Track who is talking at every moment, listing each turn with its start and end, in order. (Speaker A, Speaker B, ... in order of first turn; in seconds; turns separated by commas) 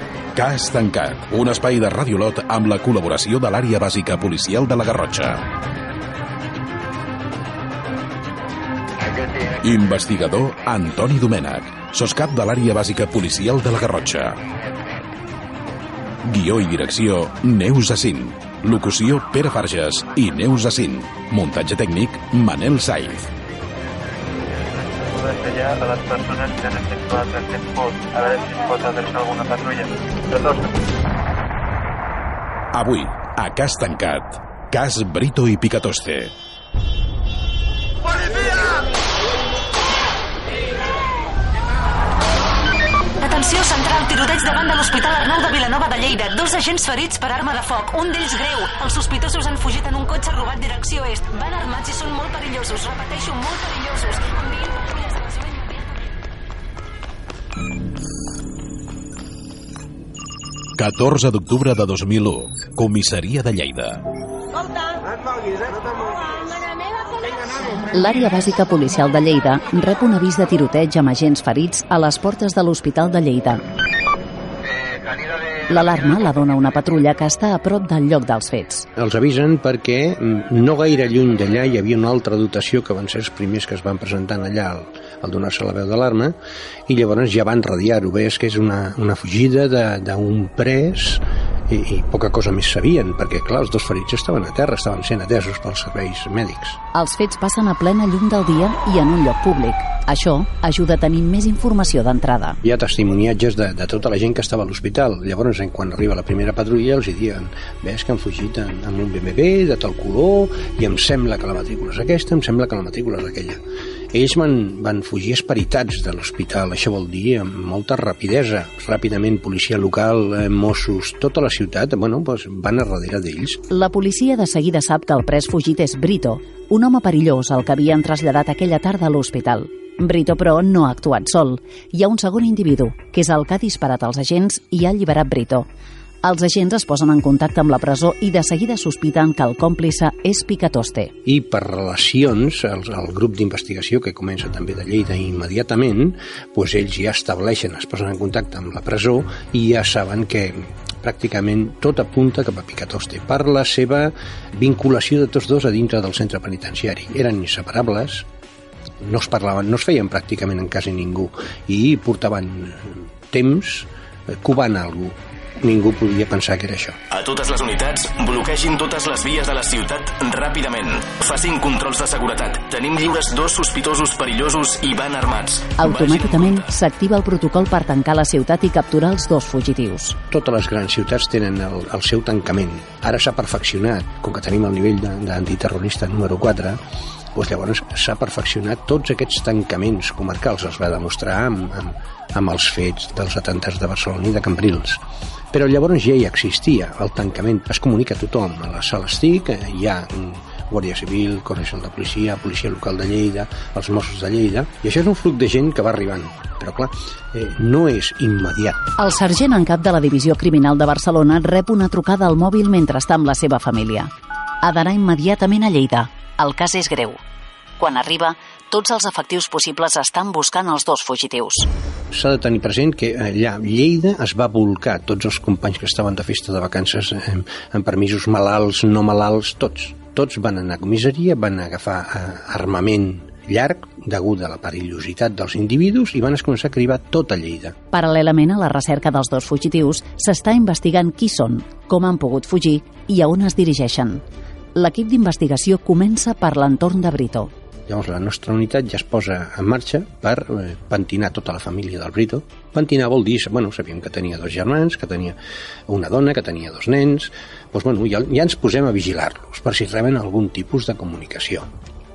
Speaker A: 0.4-5.4, Speaker A: 9.6-14.4, Speaker A: 16.2-23.3, Speaker B: 24.5-30.7, Speaker A: 32.7-36.3, Speaker C: 43.2-56.1, Speaker A: 60.8-64.0, Speaker D: 67.9-73.6, Speaker D: 75.7-78.9, Speaker E: 79.0-86.4, Speaker E: 86.9-96.8, Speaker D: 96.9-102.6, Speaker E: 102.6-113.6, Speaker E: 114.1-123.7, Speaker D: 123.7-135.7, Speaker D: 136.2-141.2, Speaker E: 141.2-158.3, Speaker E: 159.0-167.0, Speaker F: 167.1-176.7, Speaker D: 175.8-180.2, Speaker E: 180.3-186.8, Speaker E: 187.3-208.9, Speaker D: 209.0-214.1, Speaker D: 214.6-217.2, Speaker D: 217.8-221.7, Speaker E: 222.1-237.8, Speaker D: 237.9-244.2, Speaker D: 244.8-247.5, Speaker E: 247.9-255.4, Speaker E: 255.9-261.7